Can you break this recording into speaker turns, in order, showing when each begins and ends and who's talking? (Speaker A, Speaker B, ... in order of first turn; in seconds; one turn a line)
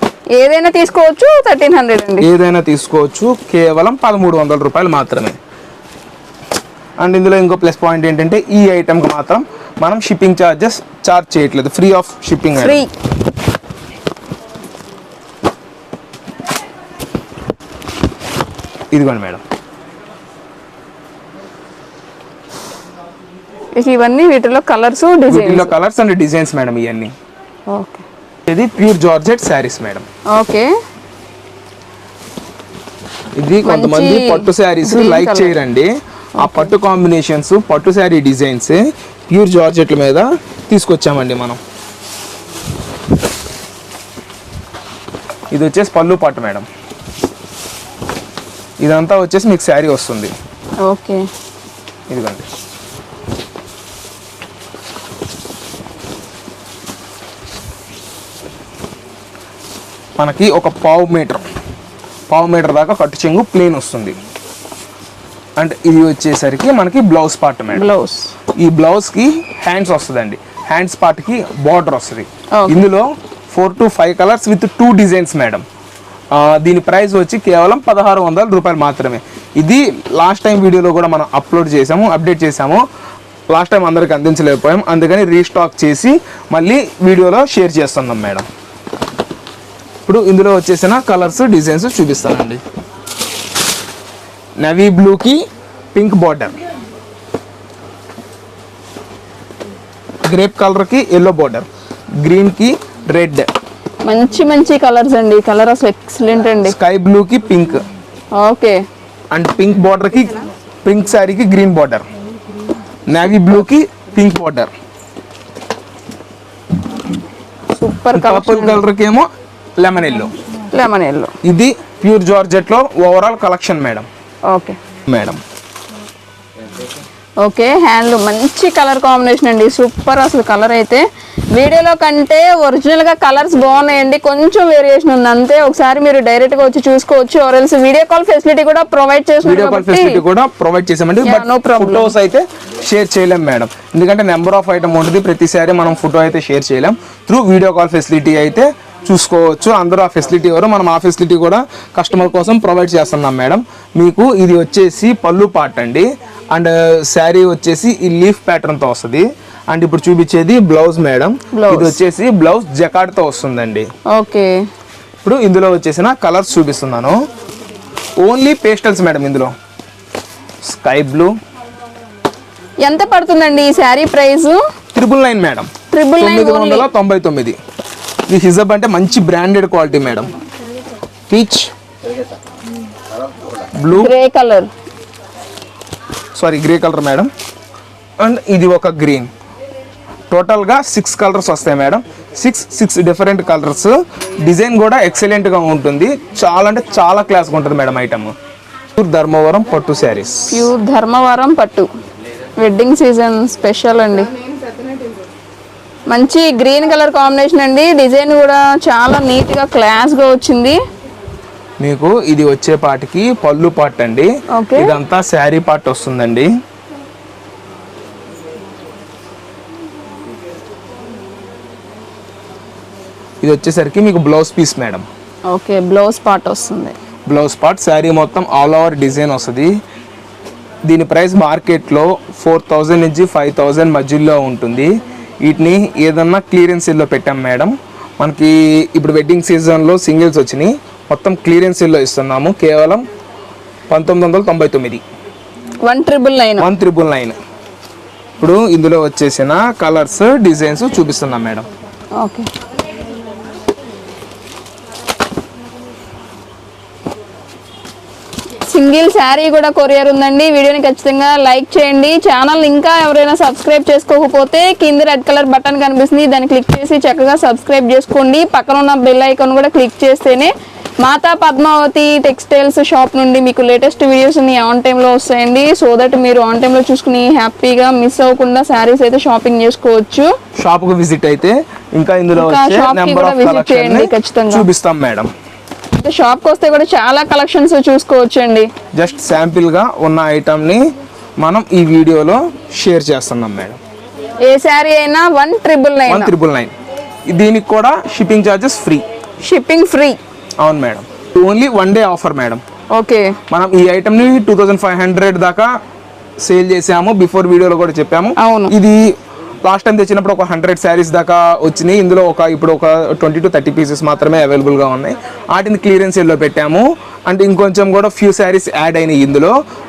Speaker A: 0.4-2.3
Speaker B: 2.2-5.4
Speaker B: 7.0-12.8
Speaker A: 12.6-12.9
Speaker B: 18.9-19.4
Speaker A: 23.8-25.7
Speaker B: 25.3-27.1
Speaker A: 27.7-28.0
Speaker B: 28.5-30.0
Speaker A: 30.3-30.7
Speaker B: 33.4-41.6
Speaker A: 33.6-35.6
Speaker A: 36.4-36.7
Speaker B: 45.5-46.6
Speaker B: 48.8-50.3
Speaker A: 50.8-51.2
Speaker B: 52.1-52.4
Speaker B: 60.2-61.4
Speaker B: 62.3-64.2
Speaker B: 65.6-67.8
Speaker A: 67.7-68.3
Speaker B: 68.6-75.6
Speaker A: 72.5-72.8
Speaker B: 76.3-82.8
Speaker B: 83.5-88.4
Speaker B: 90.0-92.6
Speaker B: 94.6-95.4
Speaker B: 95.9-96.6
Speaker B: 100.3-101.7
Speaker B: 102.2-103.5
Speaker A: 104.0-106.7
Speaker B: 106.6-107.8
Speaker A: 108.3-108.8
Speaker B: 109.3-112.0
Speaker B: 113.1-114.7
Speaker A: 117.7-118.8
Speaker B: 118.1-119.3
Speaker B: 119.8-120.3
Speaker A: 120.7-121.3
Speaker B: 121.4-124.0
Speaker A: 124.5-124.8
Speaker B: 125.1-125.4
Speaker A: 127.4-140.2
Speaker B: 139.4-163.9
Speaker A: 141.2-142.1
Speaker A: 161.5-162.0
Speaker A: 164.1-164.5
Speaker B: 165.2-167.2
Speaker B: 168.2-169.5
Speaker B: 170.7-171.3
Speaker A: 172.8-174.6
Speaker B: 174.9-177.6
Speaker A: 175.9-176.9
Speaker B: 178.3-180.3
Speaker B: 181.3-181.7
Speaker B: 183.8-184.1
Speaker A: 183.9-184.7
Speaker B: 186.3-187.3
Speaker B: 188.2-189.3
Speaker B: 190.3-198.3
Speaker B: 199.0-200.7
Speaker A: 200.5-201.9
Speaker A: 202.6-204.3
Speaker A: 206.1-210.8
Speaker B: 211.8-216.5
Speaker A: 214.5-214.9
Speaker B: 223.4-225.0
Speaker A: 225.5-226.9
Speaker B: 227.3-229.7
Speaker B: 230.8-243.0
Speaker B: 243.9-245.0
Speaker A: 245.8-246.7
Speaker B: 246.6-247.3
Speaker B: 248.4-251.6
Speaker A: 252.2-252.5
Speaker A: 258.7-280.3
Speaker B: 280.6-285.3
Speaker A: 282.4-284.7
Speaker A: 285.9-288.7
Speaker B: 288.9-290.8
Speaker B: 291.4-293.8
Speaker A: 294.4-296.3
Speaker B: 296.1-296.7
Speaker B: 297.3-299.0
Speaker A: 299.4-300.2
Speaker B: 300.6-302.6
Speaker A: 302.9-303.4
Speaker B: 303.5-305.7
Speaker B: 306.4-309.0
Speaker A: 308.4-308.7
Speaker B: 309.6-319.5